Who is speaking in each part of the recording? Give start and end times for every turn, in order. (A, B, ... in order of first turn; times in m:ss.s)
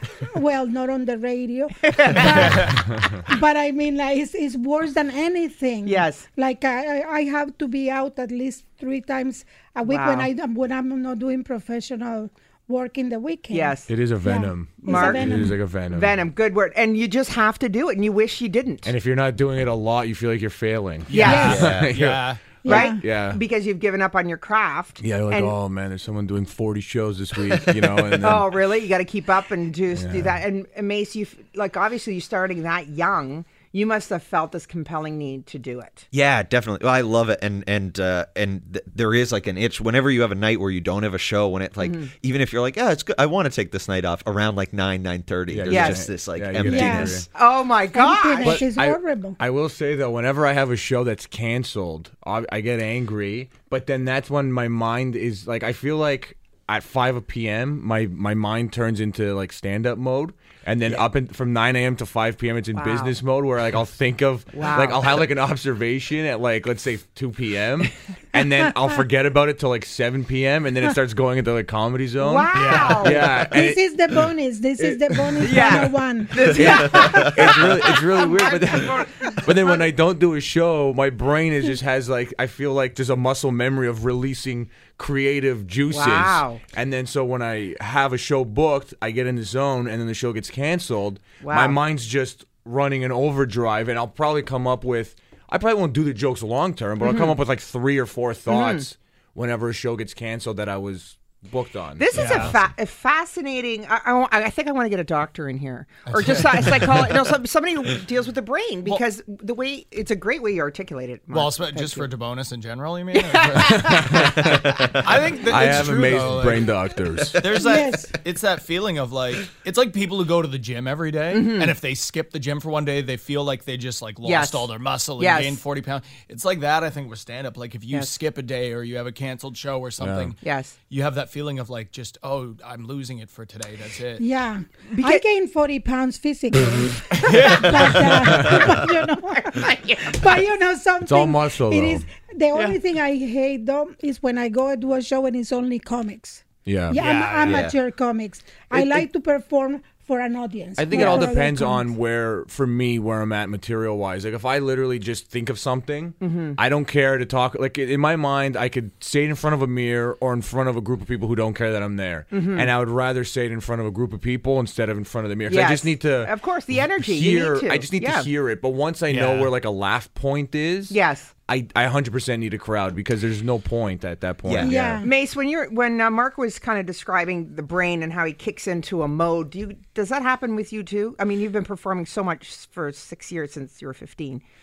0:00.2-0:15.6 A
0:01.8-0:02.8 B
0:05.9-0:06.3 B
0:09.9-0:10.3 B
0:13.5-0:13.9 B
0:13.9-0:16.2 C
0:14.8-0:18.9 B
0:18.8-0:23.4 C
0:21.1-0:21.7 B
0:21.1-0:22.5 D
0:21.2-0:21.7 A
0:21.5-0:21.9 E
0:22.6-0:23.0 A
0:22.6-0:25.6 B
0:25.0-0:28.6 C
0:28.2-0:36.0 B
0:29.9-0:30.4 C
0:36.1-0:47.3 E
0:41.8-0:42.1 B
0:45.5-0:47.3 C
0:45.7-0:46.0 B
0:46.6-0:47.2 A
0:47.3-0:48.6 B
0:47.9-0:49.4 A
0:48.4-1:13.9 C
1:02.8-1:03.2 B
1:04.5-1:05.2 B
1:12.2-1:13.4 B
1:12.5-1:13.2 D
1:13.4-1:17.3 A
1:15.4-1:19.8 B
1:16.4-1:42.5 C
1:25.9-1:26.6 B
1:31.4-1:31.8 B
1:37.0-1:37.4 B
1:38.5-1:38.8 B
1:42.0-1:52.1 B
1:42.1-1:42.5 D
1:46.1-1:47.1 D
1:51.3-1:54.2 D
1:53.1-1:54.6 B
1:53.7-1:54.3 C
1:54.4-1:55.2 E
1:55.0-1:56.8 D
1:55.5-1:57.4 C
1:57.4-2:10.4 D
1:57.6-1:58.1 A
2:01.3-2:01.7 B
2:04.2-2:05.6 B
2:10.0-2:10.3 C
2:10.4-2:10.7 B
2:10.9-2:14.2 D
2:14.2-2:31.9 A
2:14.9-2:15.2 B
2:17.2-2:17.7 D
2:19.4-2:20.4 B
2:21.0-2:22.1 C
2:26.6-2:27.0 C
2:27.0-2:27.6 D
2:27.4-2:27.8 E
2:28.7-2:29.0 C
2:30.8-2:46.3 C
2:30.9-2:31.3 B
2:36.2-2:36.6 B
2:42.3-2:42.7 B
2:45.5-2:48.3 B
2:47.0-2:51.0 C
2:49.1-2:49.5 D
2:50.9-2:51.3 B
2:51.5-2:55.1 C
2:54.4-2:54.7 E
2:54.6-2:55.1 A
2:55.0-3:04.4 B